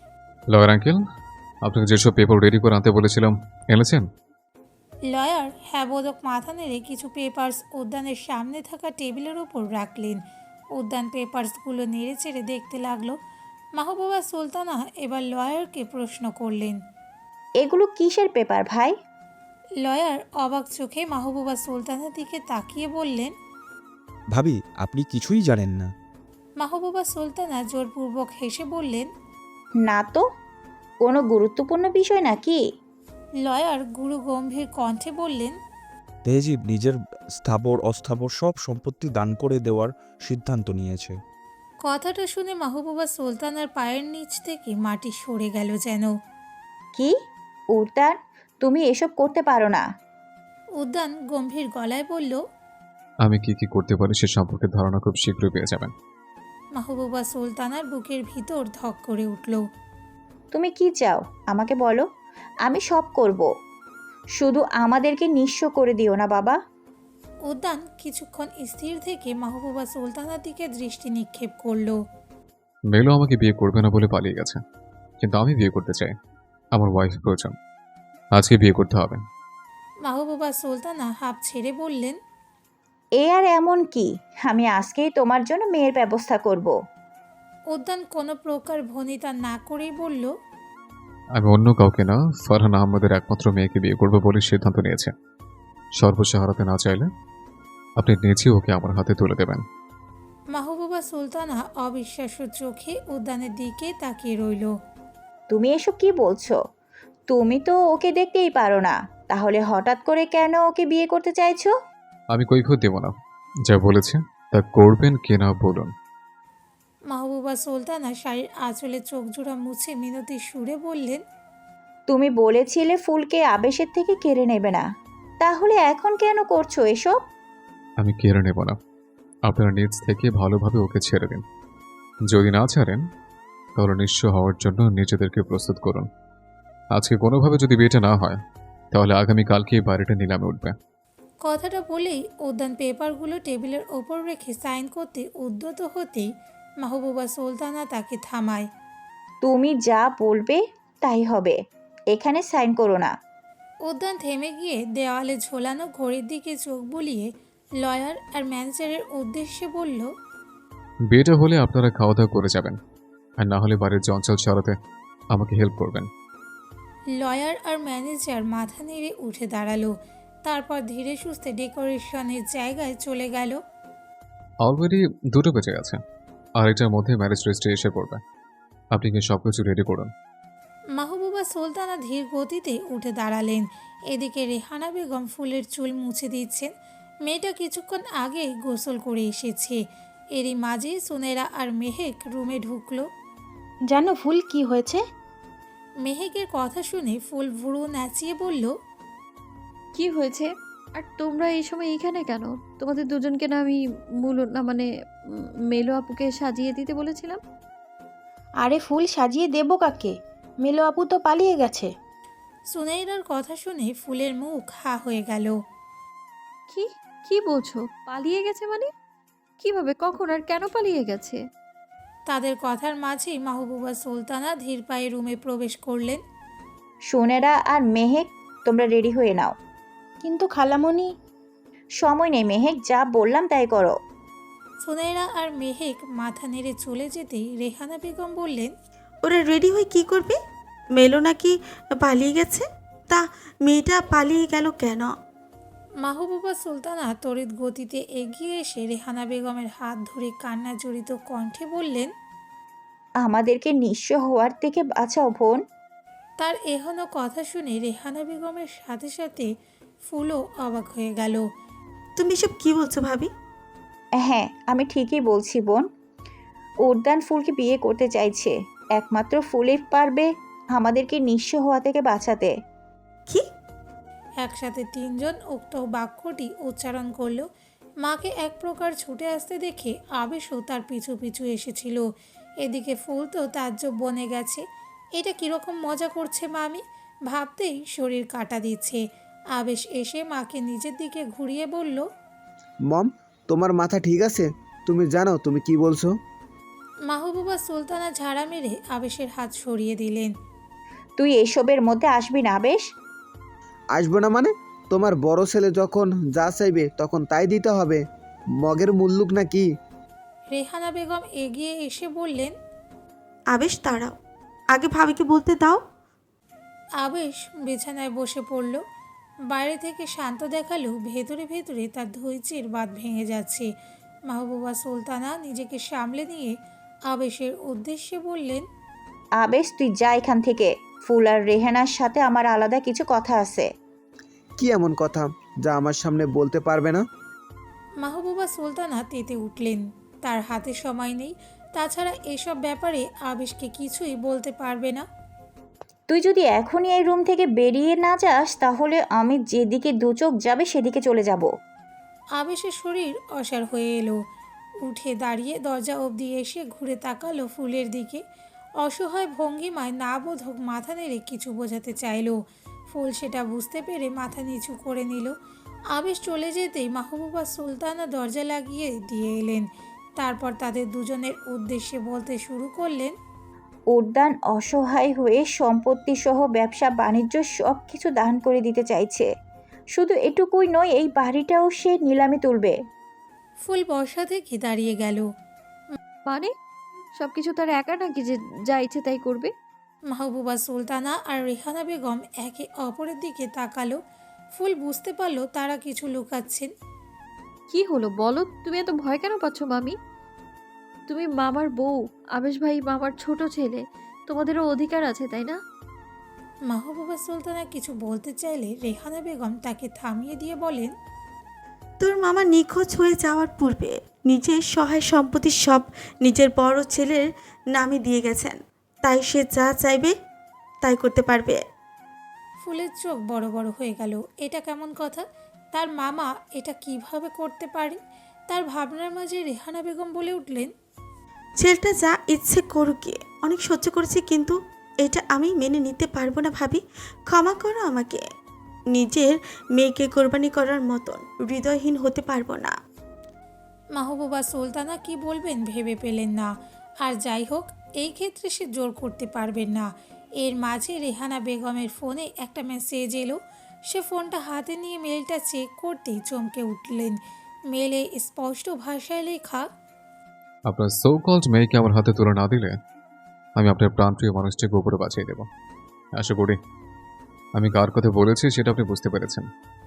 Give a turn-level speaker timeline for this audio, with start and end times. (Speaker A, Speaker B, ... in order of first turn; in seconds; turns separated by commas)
Speaker A: 0.5-1.0, Speaker A: 1.6-4.1, Speaker B: 5.1-10.2, Speaker B: 10.8-13.2, Speaker B: 13.8-16.8, Speaker C: 17.6-18.9, Speaker B: 19.8-23.3, Speaker D: 24.3-25.9, Speaker B: 26.6-29.1, Speaker C: 29.8-30.2, Speaker C: 31.0-32.6, Speaker B: 33.4-35.5, Speaker D: 36.2-41.1, Speaker B: 41.8-46.1, Speaker C: 47.7-49.8, Speaker B: 50.8-52.4, Speaker A: 53.2-55.9, Speaker B: 56.8-59.6, Speaker C: 60.5-62.1, Speaker C: 62.6-63.5, Speaker C: 64.4-66.6, Speaker B: 67.5-72.0, Speaker A: 72.9-74.6, Speaker A: 75.2-76.1, Speaker A: 76.7-77.5, Speaker A: 78.3-79.2, Speaker B: 80.1-82.2, Speaker C: 83.2-86.7, Speaker B: 87.7-90.3, Speaker A: 91.4-95.1, Speaker A: 96.0-97.1, Speaker A: 98.0-99.6, Speaker B: 100.5-104.7, Speaker C: 105.5-106.6, Speaker C: 107.3-111.7, Speaker A: 112.3-113.1, Speaker A: 113.7-115.9, Speaker B: 117.1-121.2, Speaker C: 122.1-124.8, Speaker C: 125.4-127.2, Speaker A: 128.0-128.8, Speaker A: 129.5-131.4, Speaker A: 132.3-133.0, Speaker A: 133.8-136.1, Speaker A: 136.9-138.4, Speaker A: 138.9-140.7, Speaker B: 141.4-146.3, Speaker B: 146.8-148.7, Speaker C: 149.4-151.6, Speaker C: 152.1-153.1, Speaker B: 153.9-157.3, Speaker B: 157.8-160.1, Speaker A: 161.1-162.8, Speaker A: 163.4-164.8, Speaker A: 165.3-166.1, Speaker B: 167.2-169.9, Speaker B: 170.4-173.6, Speaker A: 174.6-176.0, Speaker A: 176.6-178.2, Speaker A: 178.9-180.1, Speaker B: 181.0-186.7, Speaker B: 187.2-189.8, Speaker B: 190.3-193.0, Speaker E: 193.9-195.0, Speaker B: 196.0-198.7, Speaker F: 199.9-207.4, Speaker E: 208.6-211.9, Speaker B: 212.7-215.5, Speaker F: 216.7-218.9, Speaker F: 219.6-221.4, Speaker B: 222.3-226.2, Speaker C: 227.1-229.5, Speaker E: 230.2-231.1, Speaker C: 232.0-234.0, Speaker B: 234.8-238.7, Speaker G: 239.2-240.4, Speaker G: 240.9-245.1, Speaker B: 246.0-252.1, Speaker C: 253.2-255.6, Speaker B: 256.4-259.5, Speaker B: 260.1-261.4, Speaker G: 262.2-263.3, Speaker C: 264.2-265.9, Speaker C: 266.8-272.5, Speaker B: 274.4-277.4, Speaker B: 278.0-282.0, Speaker B: 282.6-284.6, Speaker B: 285.2-289.0, Speaker B: 289.5-292.0, Speaker H: 292.9-296.1, Speaker B: 297.1-300.3, Speaker C: 301.2-302.9, Speaker H: 303.9-308.0, Speaker H: 308.6-309.7, Speaker B: 310.5-312.5, Speaker G: 313.5-314.1, Speaker G: 314.7-315.8, Speaker B: 317.0-318.8, Speaker B: 319.5-323.7, Speaker B: 324.3-326.6, Speaker B: 327.1-328.6, Speaker C: 329.4-333.7, Speaker H: 334.6-337.0, Speaker B: 338.0-345.0, Speaker C: 346.1-351.5, Speaker B: 352.4-354.2, Speaker B: 354.8-358.2, Speaker B: 358.8-362.4, Speaker B: 362.9-365.3, Speaker B: 365.9-369.7, Speaker B: 370.2-373.1, Speaker C: 373.9-379.3, Speaker C: 379.9-382.8, Speaker B: 383.6-385.3, Speaker F: 387.2-389.5, Speaker B: 390.1-394.0, Speaker B: 394.6-396.7, Speaker F: 397.7-399.9, Speaker F: 401.1-405.6, Speaker B: 406.7-410.9, Speaker G: 412.0-420.1, Speaker G: 420.8-421.6, Speaker B: 422.6-430.7, Speaker G: 431.6-438.2, Speaker G: 438.9-442.7, Speaker B: 444.0-446.5, Speaker B: 447.0-453.4, Speaker B: 453.9-457.2, Speaker B: 457.7-459.7, Speaker A: 460.7-462.8, Speaker A: 463.6-465.5, Speaker A: 466.1-466.6, Speaker A: 467.6-469.5